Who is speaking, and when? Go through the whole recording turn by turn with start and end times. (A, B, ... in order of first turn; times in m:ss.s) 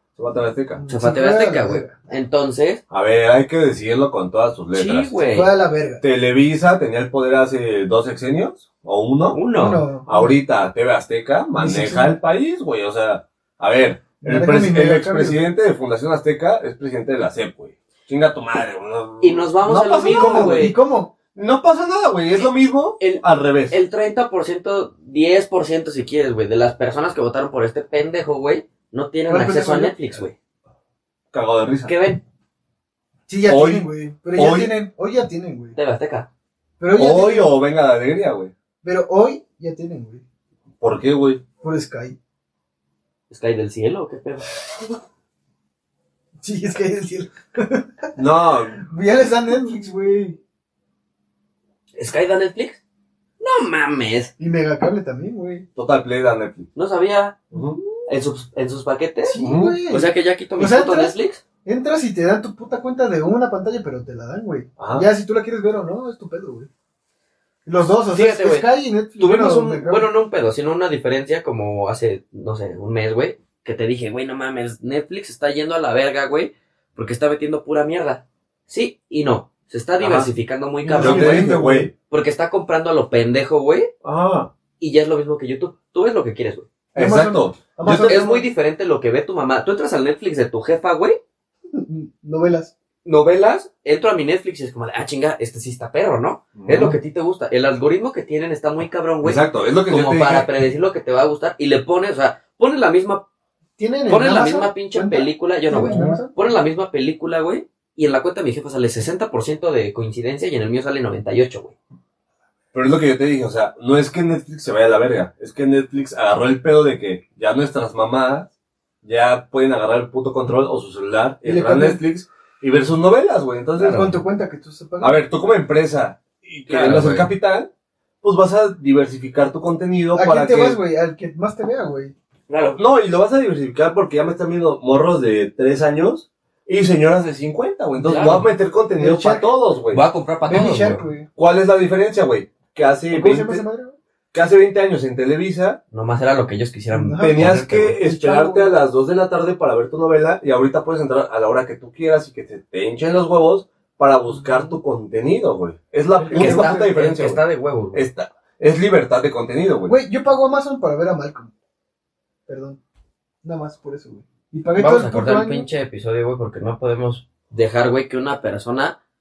0:00.2-0:00.8 A
0:00.8-0:02.0 B
0:00.9-0:02.8 C
0:02.9-0:05.1 A
0:04.7-0:05.5 C
0:05.3-0:06.0 B
0:06.0-0:09.4 A
0:09.3-0:09.8 C
0:09.5-0:10.3 B
0:10.0-0:20.7 A
0:11.6-0:12.2 B
0:14.2-0:15.4 B
0:19.2-0:20.7 C
0:19.7-0:21.1 B
0:21.3-0:23.8 A
0:23.0-0:30.3 C
0:29.3-0:30.2 B
0:31.3-0:31.9 A
0:31.8-0:32.2 C
0:33.3-0:35.8 B
0:33.4-0:34.7 A
0:35.8-0:36.3 C
0:36.8-0:37.5 B
0:36.9-0:38.5 A
0:38.8-0:40.2 B
0:40.8-0:41.4 A
0:41.6-0:42.2 B
0:43.3-0:44.5 C
0:46.4-0:48.1 B
0:48.2-0:48.8 A
0:48.8-0:50.4 B
0:52.0-0:52.8 C
0:53.4-0:54.3 C
0:54.4-0:55.6 B
0:55.8-0:56.7 A
0:56.7-0:57.5 C
0:57.5-0:57.8 A
0:58.1-1:01.4 C
0:59.2-1:06.7 B
0:59.4-0:59.8 A
1:04.8-1:05.1 A
1:07.6-1:10.1 B
1:08.1-1:08.7 C
1:09.2-1:09.8 A
1:09.8-1:21.5 C
1:20.0-1:20.3 A
1:20.9-1:21.9 A
1:20.9-1:21.9 B
1:22.1-1:23.9 C
1:24.0-1:24.5 A
1:24.8-1:26.6 C
1:26.9-1:28.2 A
1:26.9-1:28.5 B
1:28.0-1:31.2 C
1:31.7-1:32.7 B
1:33.0-1:43.2 C
1:36.6-1:37.0 A
1:39.2-1:40.5 A
1:43.8-1:46.4 B
1:44.0-1:51.7 C
1:45.9-1:46.2 A
1:52.7-1:58.5 A
1:59.0-2:04.2 A
2:01.4-2:02.0 B
2:03.8-2:05.2 B
2:05.0-2:07.7 A
2:06.7-2:07.3 C
2:08.2-2:10.8 A
2:10.1-2:12.1 B
2:12.5-2:12.8 C
2:12.8-2:20.0 A
2:18.0-2:18.5 C
2:19.0-2:19.5 B
2:19.9-2:21.0 C
2:20.4-2:21.3 B
2:21.4-2:23.6 A
2:23.1-2:24.0 B
2:24.3-2:25.8 A
2:25.9-2:27.9 C
2:26.9-2:28.7 B
2:27.2-2:37.4 A
2:34.4-2:34.7 C
2:36.2-2:38.0 C
2:36.3-2:36.8 B
2:37.9-2:39.9 A
2:39.9-2:41.5 B
2:42.5-2:42.8 B
2:43.4-2:45.7 B
2:44.8-2:49.0 C